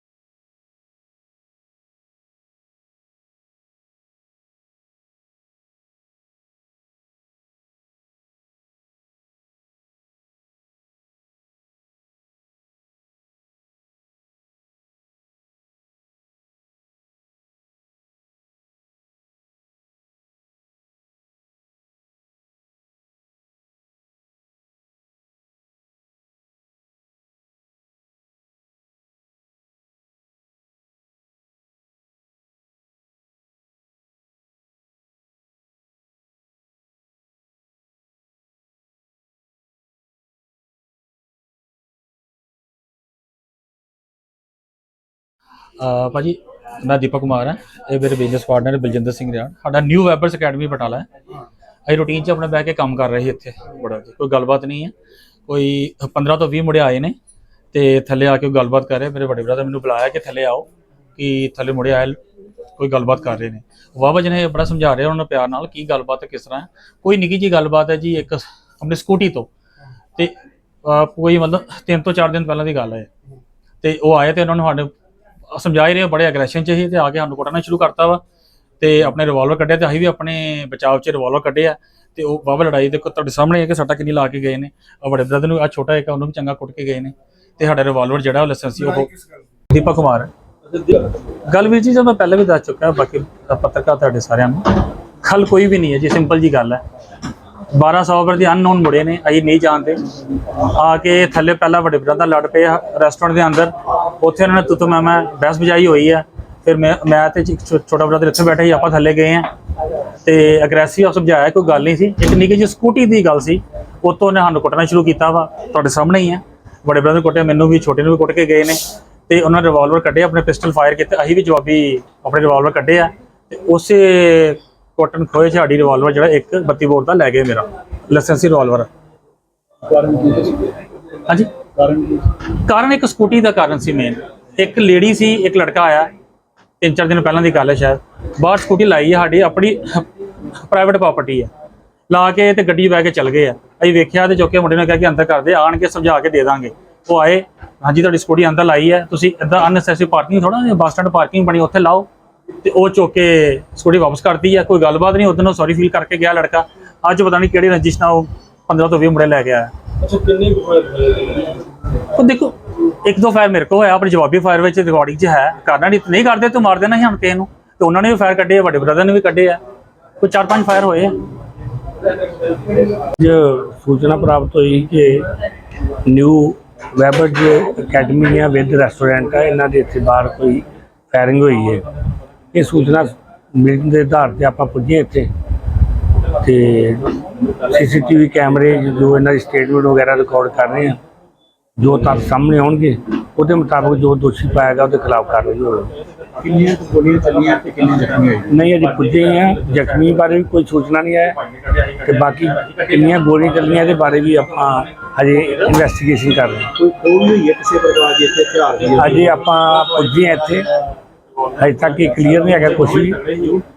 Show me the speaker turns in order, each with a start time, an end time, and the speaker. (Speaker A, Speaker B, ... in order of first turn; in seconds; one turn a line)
Speaker A: 45.8-51.1
Speaker A: 51.9-54.9
Speaker A: 55.5-57.1
Speaker A: 57.7-62.2
Speaker A: 62.8-69.5
Speaker A: 70.2-73.1
Speaker A: 73.8-74.9
Speaker A: 75.5-78.2
Speaker A: 78.8-89.1
Speaker A: 89.7-96.8
Speaker A: 97.8-100.0
Speaker A: 100.5-109.5
Speaker A: 110.2-128.9
Speaker B: 129.9-130.7
Speaker B: 131.8-132.3
Speaker A: 132.7-136.1
Speaker A: 136.8-140.1
Speaker A: 140.6-141.5
Speaker A: 142.1-152.1
Speaker A: 152.6-160.3
Speaker A: 162.2-169.6
Speaker A: 170.2-171.2
Speaker C: 173.0-175.3
Speaker C: 176.1-181.8
Speaker C: 182.5-185.3
Speaker C: 186.3-191.0
Speaker C: 191.8-195.9
Speaker B: 196.4-198.5
Speaker C: 198.5-201.4
Speaker C: 202.0-206.7
Speaker B: 206.8-209.2
Speaker C: 209.0-210.7
Speaker C: 211.6-213.2
Speaker A: 213.2-213.6